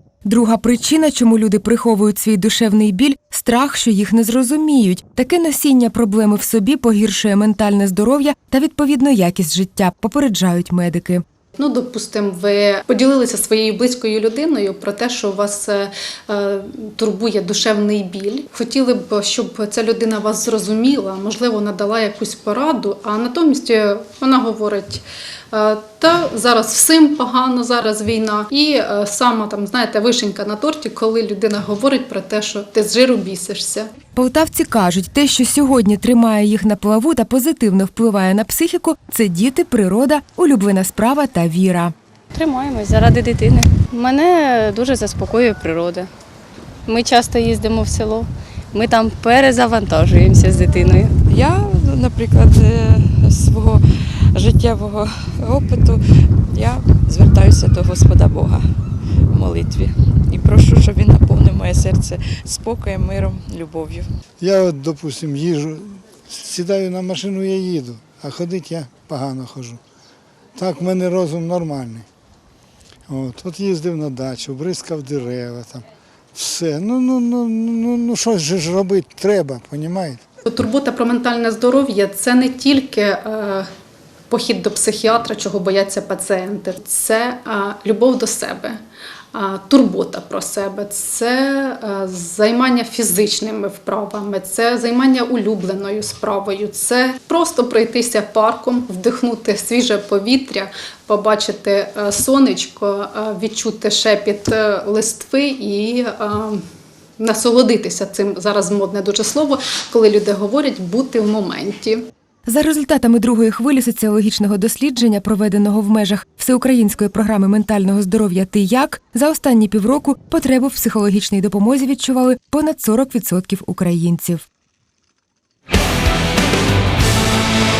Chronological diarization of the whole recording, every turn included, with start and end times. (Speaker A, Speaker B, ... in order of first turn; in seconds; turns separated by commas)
Speaker A: 0.2-11.2, Speaker B: 11.6-33.9, Speaker A: 34.1-41.9, Speaker C: 42.4-46.0, Speaker C: 46.9-51.1, Speaker D: 51.2-64.1, Speaker E: 64.4-69.8, Speaker E: 70.5-72.0, Speaker E: 73.1-75.8, Speaker E: 76.3-80.2, Speaker B: 80.4-83.7, Speaker B: 84.3-88.8, Speaker B: 89.3-106.6, Speaker B: 107.2-112.1, Speaker A: 112.5-124.5